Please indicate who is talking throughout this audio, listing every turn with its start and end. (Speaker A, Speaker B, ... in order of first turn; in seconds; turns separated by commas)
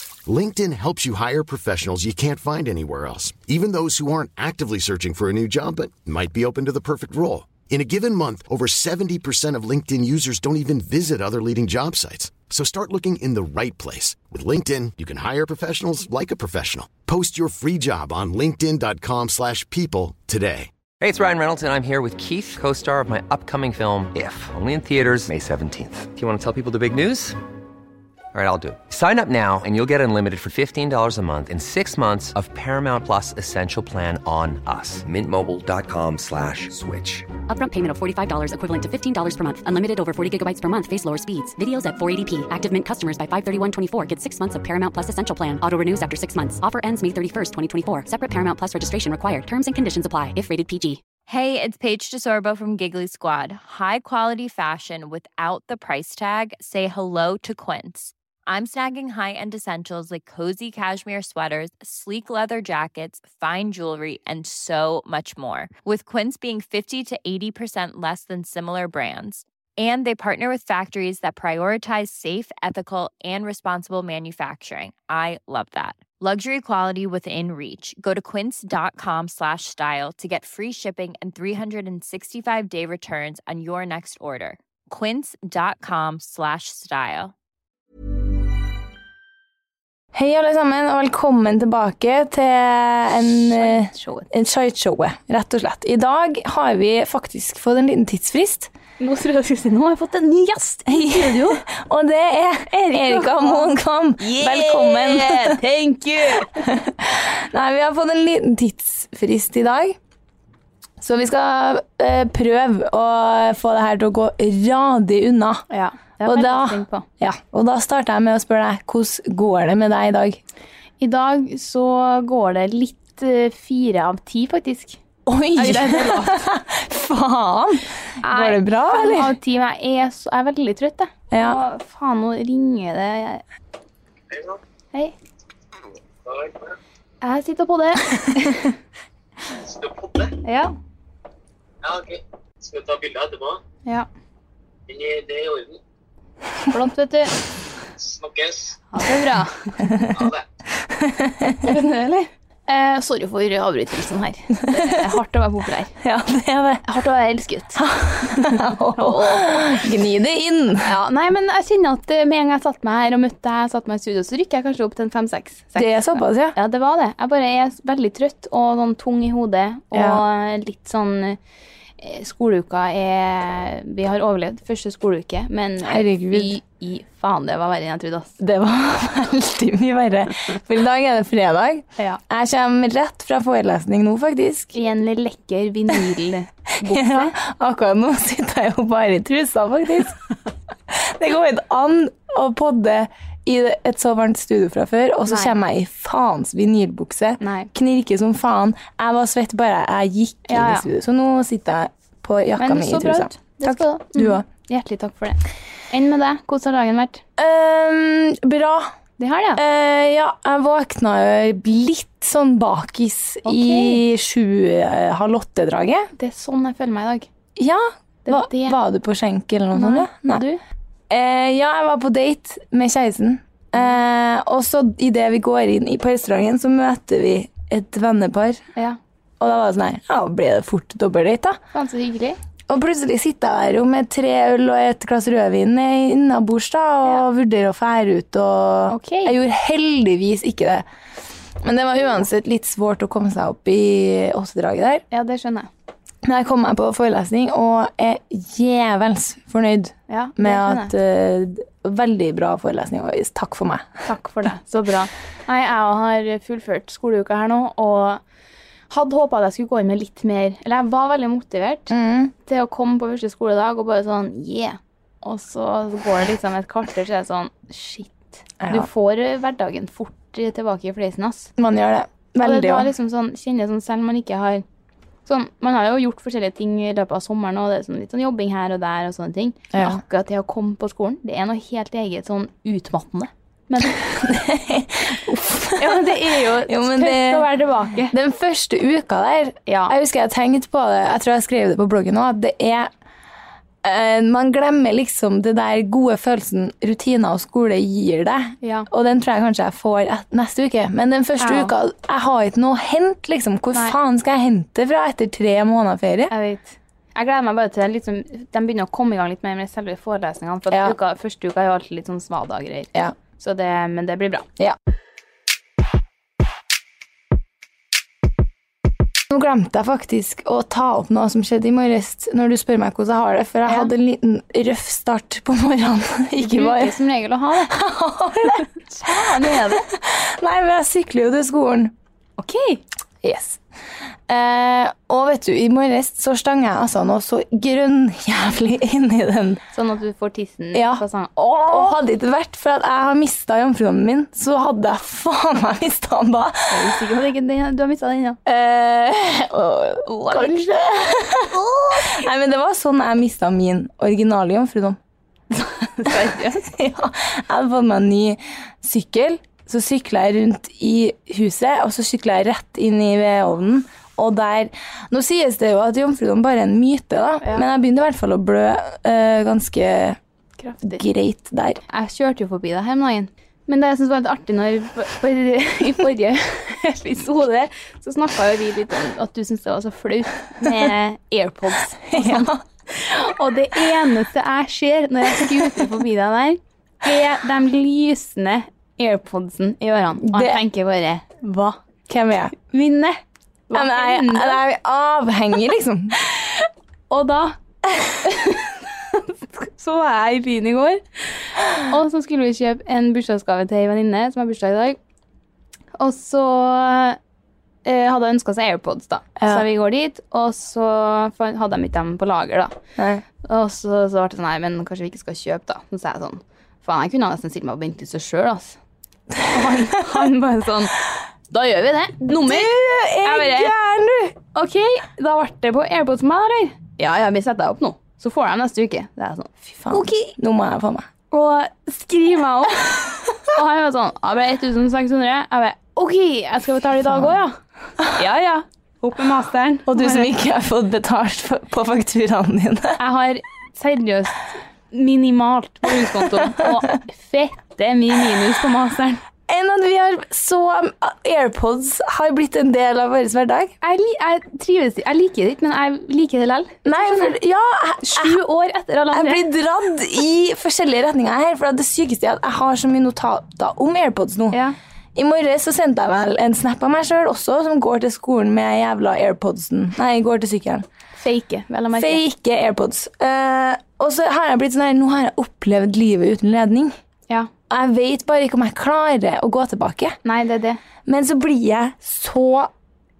Speaker A: 0.3-20.7, Speaker B: 21.0-27.4, Speaker B: 28.3-37.3, Speaker C: 37.5-51.0, Speaker D: 51.3-87.3, Speaker E: 90.1-98.7, Speaker F: 93.5-94.3, Speaker F: 99.0-101.6, Speaker E: 100.9-105.6, Speaker F: 103.0-106.7, Speaker E: 106.6-110.0, Speaker E: 111.0-115.7, Speaker F: 115.7-117.0, Speaker E: 116.2-120.4, Speaker F: 121.0-125.0, Speaker E: 125.3-129.3, Speaker F: 125.5-126.4, Speaker F: 128.2-133.4, Speaker E: 131.3-131.6, Speaker G: 134.3-134.6, Speaker G: 136.2-136.8, Speaker F: 137.2-138.7, Speaker G: 139.6-140.4, Speaker F: 140.4-140.7, Speaker G: 141.8-143.6, Speaker G: 144.9-145.8, Speaker F: 146.7-147.4, Speaker G: 148.0-148.8, Speaker F: 148.9-149.7, Speaker G: 150.1-150.4, Speaker E: 150.9-151.7, Speaker F: 151.6-155.9, Speaker E: 156.0-156.9, Speaker F: 156.9-159.8, Speaker E: 157.8-160.9, Speaker F: 160.8-171.4, Speaker E: 165.8-166.6, Speaker E: 169.9-170.2, Speaker F: 172.0-178.4, Speaker E: 175.8-176.6, Speaker E: 178.4-184.7, Speaker F: 184.7-187.3, Speaker E: 186.8-190.2, Speaker E: 190.9-204.4, Speaker F: 195.3-195.5, Speaker F: 197.4-197.7, Speaker F: 200.5-200.9, Speaker F: 202.6-207.2, Speaker E: 207.4-208.9, Speaker F: 209.2-209.6, Speaker E: 209.6-216.1, Speaker F: 213.4-214.0, Speaker F: 216.2-217.3, Speaker E: 217.6-220.4, Speaker F: 218.2-218.8, Speaker F: 219.8-220.6, Speaker E: 221.1-228.6, Speaker E: 229.4-231.6, Speaker F: 231.7-232.4, Speaker E: 232.7-240.8, Speaker F: 238.9-239.3, Speaker E: 241.6-245.0, Speaker F: 245.1-245.7, Speaker E: 246.2-253.9, Speaker F: 250.1-250.9, Speaker F: 254.1-258.2, Speaker F: 258.9-261.9, Speaker E: 261.9-262.3, Speaker F: 262.5-271.5, Speaker E: 268.6-268.9, Speaker E: 271.6-272.9, Speaker F: 272.4-274.6, Speaker F: 275.3-284.0, Speaker E: 279.7-280.0, Speaker E: 283.9-287.5, Speaker F: 285.8-288.1, Speaker E: 288.1-292.9, Speaker F: 289.7-289.9, Speaker E: 293.8-306.3, Speaker F: 298.6-298.9, Speaker F: 301.4-301.7, Speaker F: 306.3-314.5, Speaker E: 319.3-327.0, Speaker F: 326.4-327.8, Speaker E: 327.7-328.7, Speaker F: 328.5-329.9, Speaker E: 329.4-331.9, Speaker F: 332.4-332.8, Speaker E: 333.2-333.6, Speaker E: 334.3-339.6, Speaker F: 339.7-342.0, Speaker E: 340.7-341.0, Speaker E: 341.7-346.9, Speaker F: 346.7-348.4, Speaker E: 348.4-355.0, Speaker F: 350.1-350.5, Speaker F: 351.5-352.1, Speaker F: 355.5-356.6, Speaker E: 356.7-370.2, Speaker F: 370.6-371.0, Speaker E: 370.8-371.8, Speaker F: 371.9-391.8, Speaker E: 382.1-382.6, Speaker E: 390.2-390.6, Speaker E: 392.1-392.6, Speaker F: 392.6-394.6, Speaker E: 393.7-396.1, Speaker F: 396.2-397.6, Speaker F: 398.2-405.0, Speaker F: 406.0-407.2, Speaker F: 407.9-412.8, Speaker E: 409.4-409.6, Speaker E: 413.0-413.2, Speaker F: 413.4-418.8, Speaker F: 419.5-420.9, Speaker F: 421.5-422.7, Speaker E: 422.2-424.4, Speaker F: 423.2-423.7, Speaker F: 424.5-430.3, Speaker E: 429.7-431.1, Speaker F: 431.3-437.6, Speaker F: 438.1-440.3, Speaker E: 439.9-443.0, Speaker F: 443.0-449.2, Speaker E: 449.5-453.7, Speaker F: 453.8-457.4, Speaker E: 456.9-458.4, Speaker F: 458.0-459.5, Speaker E: 459.1-464.6, Speaker F: 464.5-464.8, Speaker E: 465.1-470.9, Speaker F: 471.2-472.2, Speaker E: 471.9-476.9, Speaker E: 477.7-480.2, Speaker F: 480.2-480.8, Speaker E: 481.1-482.7